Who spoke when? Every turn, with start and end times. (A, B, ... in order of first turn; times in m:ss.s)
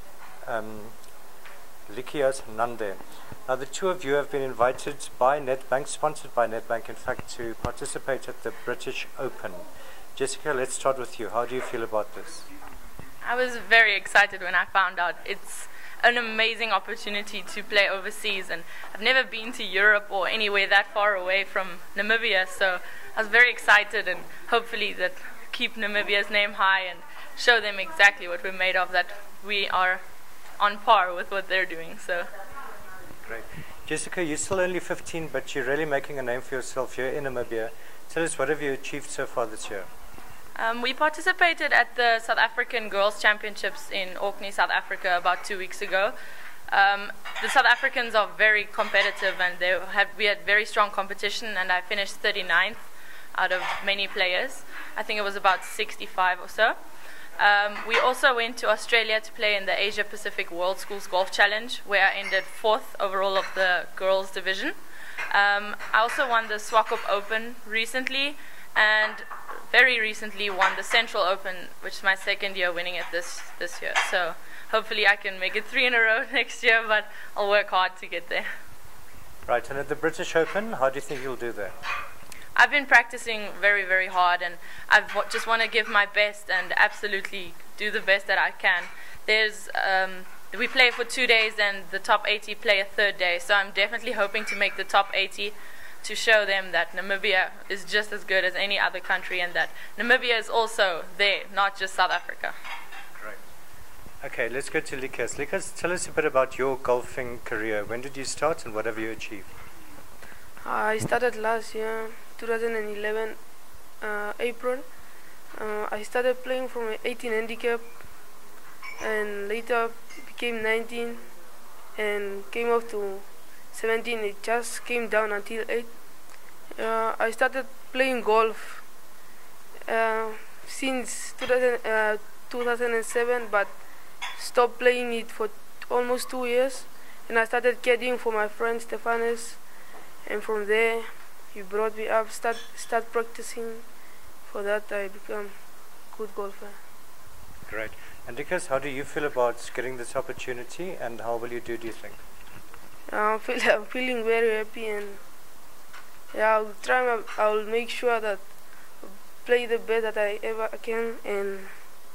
0:00.5-0:00.9 A
0:01.9-0:09.6 A
0:10.2-0:12.5 A
0:13.2-0:30.0 B
0:30.6-0:32.3 B
0:33.2-0:39.9 A
0:40.6-0:46.2 B
0:46.7-0:52.8 B
0:53.4-0:56.8 B
0:57.4-1:04.8 B
1:05.3-1:18.5 B
1:19.5-1:21.7 A
1:22.6-1:42.6 B
1:44.2-1:49.5 A
1:50.6-1:53.4 C
1:54.0-1:54.9 C
1:55.5-1:57.9 C
1:59.0-2:01.2 C
2:02.0-2:05.9 C
2:06.7-2:08.8 C
2:09.9-2:13.7 C
2:14.3-2:19.6 C
2:20.2-2:23.9 C
2:24.5-2:25.5 C
2:26.1-2:26.8 C
2:27.7-2:32.2 A
2:33.1-2:35.2 C
2:36.3-2:41.8 C